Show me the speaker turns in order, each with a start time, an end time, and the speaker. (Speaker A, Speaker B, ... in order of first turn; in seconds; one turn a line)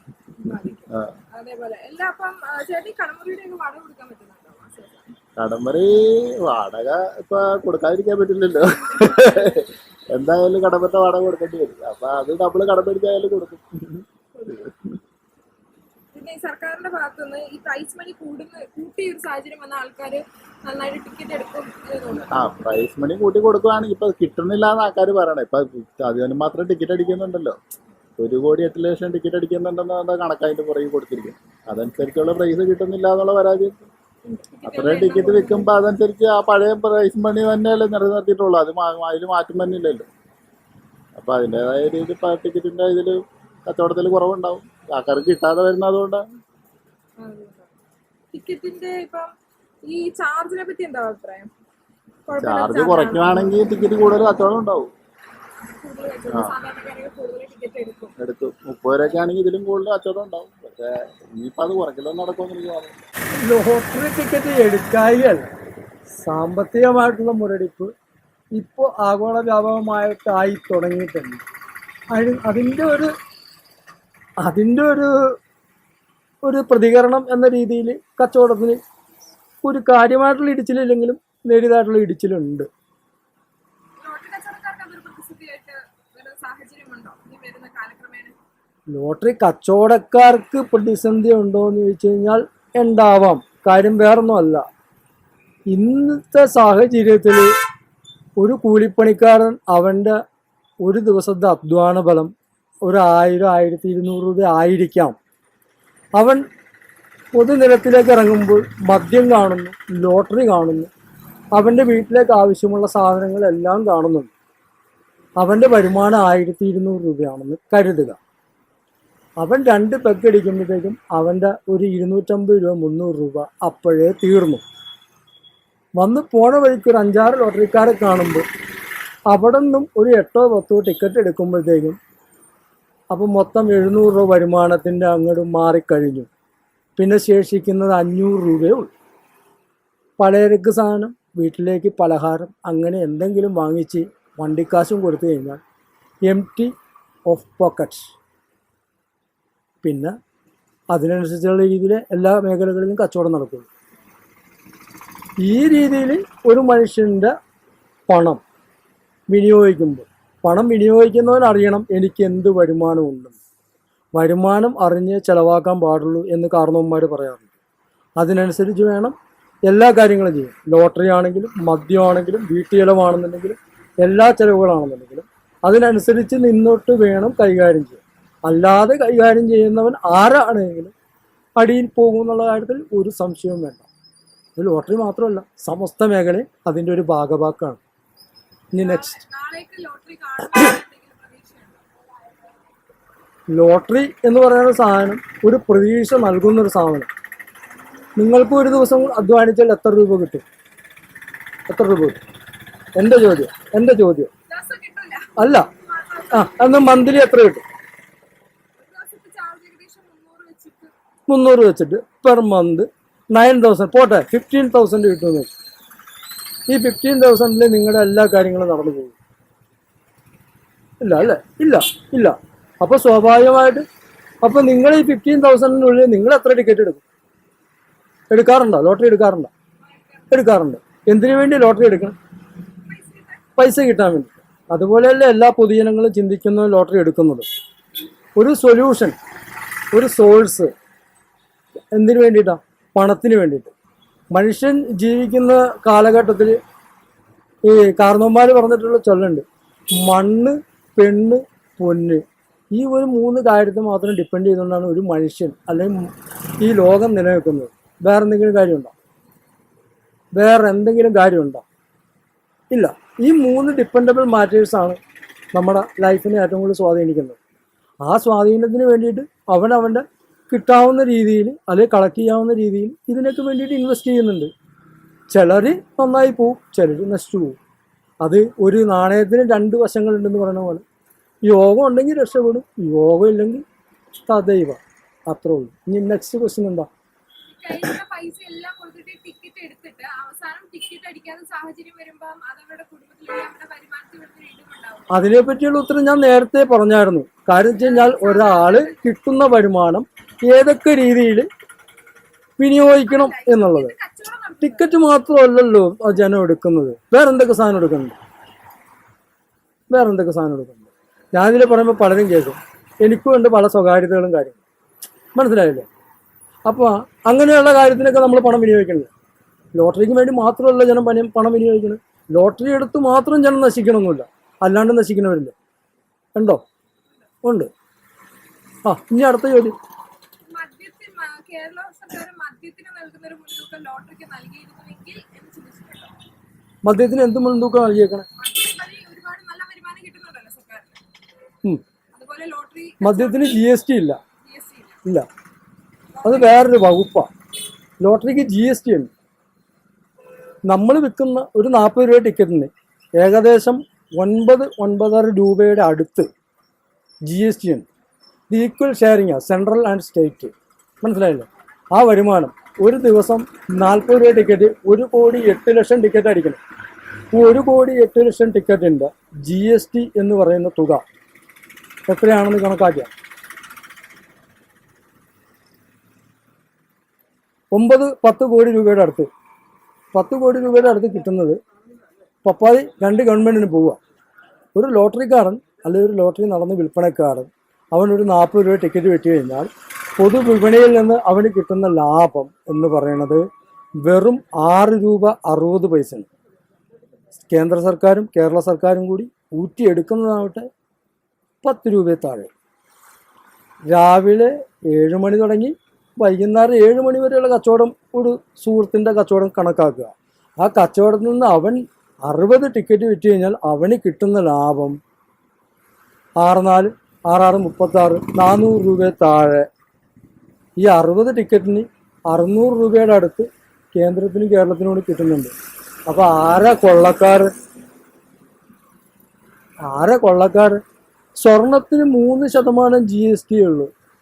Speaker A: 0.4-5.1
Speaker B: 5.4-14.0
Speaker A: 14.4-14.6
Speaker A: 16.1-22.3
Speaker B: 22.3-27.6
Speaker B: 28.2-33.8
Speaker A: 34.3-35.8
Speaker B: 34.6-40.1
Speaker B: 41.1-46.2
Speaker A: 47.2-47.7
Speaker A: 48.3-51.5
Speaker A: 52.3-53.5
Speaker B: 52.4-54.9
Speaker A: 55.8-58.1
Speaker B: 56.3-56.5
Speaker B: 58.2-62.9
Speaker C: 63.4-65.5
Speaker C: 66.1-67.9
Speaker C: 68.5-71.4
Speaker C: 72.1-73.1
Speaker C: 74.4-75.4
Speaker C: 76.4-78.8
Speaker C: 79.6-82.7
Speaker A: 84.0-88.3
Speaker C: 88.9-94.7
Speaker C: 95.7-97.5
Speaker C: 98.4-100.2
Speaker C: 100.8-105.2
Speaker C: 106.1-106.5
Speaker C: 107.3-110.9
Speaker C: 111.5-114.3
Speaker C: 115.4-118.2
Speaker C: 119.4-124.6
Speaker C: 126.0-128.4
Speaker C: 129.3-132.0
Speaker C: 133.1-136.3
Speaker C: 137.0-138.9
Speaker C: 140.2-145.6
Speaker C: 146.2-146.7
Speaker C: 147.2-148.1
Speaker C: 149.8-150.1
Speaker C: 150.9-153.7
Speaker C: 155.4-157.3
Speaker C: 158.1-158.4
Speaker C: 159.3-163.3
Speaker C: 164.1-167.5
Speaker C: 168.2-169.1
Speaker C: 169.7-180.9
Speaker C: 181.6-183.8
Speaker C: 184.6-187.8
Speaker C: 188.7-189.2
Speaker A: 188.7-191.8
Speaker C: 193.5-197.1
Speaker C: 198.2-200.4
Speaker C: 201.7-202.2
Speaker C: 202.9-204.3
Speaker A: 204.5-207.1
Speaker C: 205.4-205.7
Speaker C: 206.3-207.6
Speaker A: 208.8-210.9
Speaker C: 211.3-215.5
Speaker C: 216.7-219.1
Speaker C: 221.0-223.8
Speaker C: 224.4-227.0
Speaker C: 228.3-229.5
Speaker A: 229.8-230.4
Speaker C: 230.3-232.1
Speaker A: 232.8-233.5
Speaker C: 233.6-237.4
Speaker C: 238.3-239.2
Speaker C: 239.9-240.7
Speaker C: 241.9-243.7
Speaker C: 244.3-246.6
Speaker C: 247.6-258.9
Speaker C: 260.3-261.6
Speaker C: 262.7-265.0
Speaker C: 265.5-267.4
Speaker C: 268.0-274.5
Speaker C: 275.3-277.6
Speaker C: 278.2-280.8
Speaker C: 281.4-283.6
Speaker C: 284.2-286.9
Speaker A: 287.5-295.1
Speaker C: 295.1-301.5
Speaker A: 297.7-299.0
Speaker C: 302.6-303.9
Speaker A: 302.9-305.0
Speaker C: 304.6-308.2
Speaker C: 309.9-314.6
Speaker C: 315.3-315.9
Speaker C: 316.6-319.1
Speaker C: 319.7-325.5
Speaker C: 326.3-326.6
Speaker C: 327.4-327.7
Speaker C: 328.8-329.7
Speaker A: 330.5-336.1
Speaker C: 336.8-338.2
Speaker A: 338.4-341.0
Speaker A: 342.1-343.6
Speaker C: 343.0-344.2
Speaker A: 344.4-345.0
Speaker A: 346.1-346.5
Speaker C: 346.2-347.3
Speaker C: 348.0-349.1
Speaker C: 350.7-356.3
Speaker C: 357.2-357.9
Speaker C: 358.5-366.6
Speaker C: 367.3-371.0
Speaker C: 372.1-373.1
Speaker C: 377.7-379.3
Speaker C: 380.1-381.6
Speaker C: 382.4-384.0
Speaker C: 384.7-393.4
Speaker C: 394.0-396.3
Speaker C: 397.5-400.7
Speaker C: 401.6-402.5
Speaker C: 403.9-415.0
Speaker C: 416.4-419.7
Speaker C: 420.8-425.5
Speaker C: 426.1-427.5
Speaker C: 429.8-430.8
Speaker C: 431.4-433.9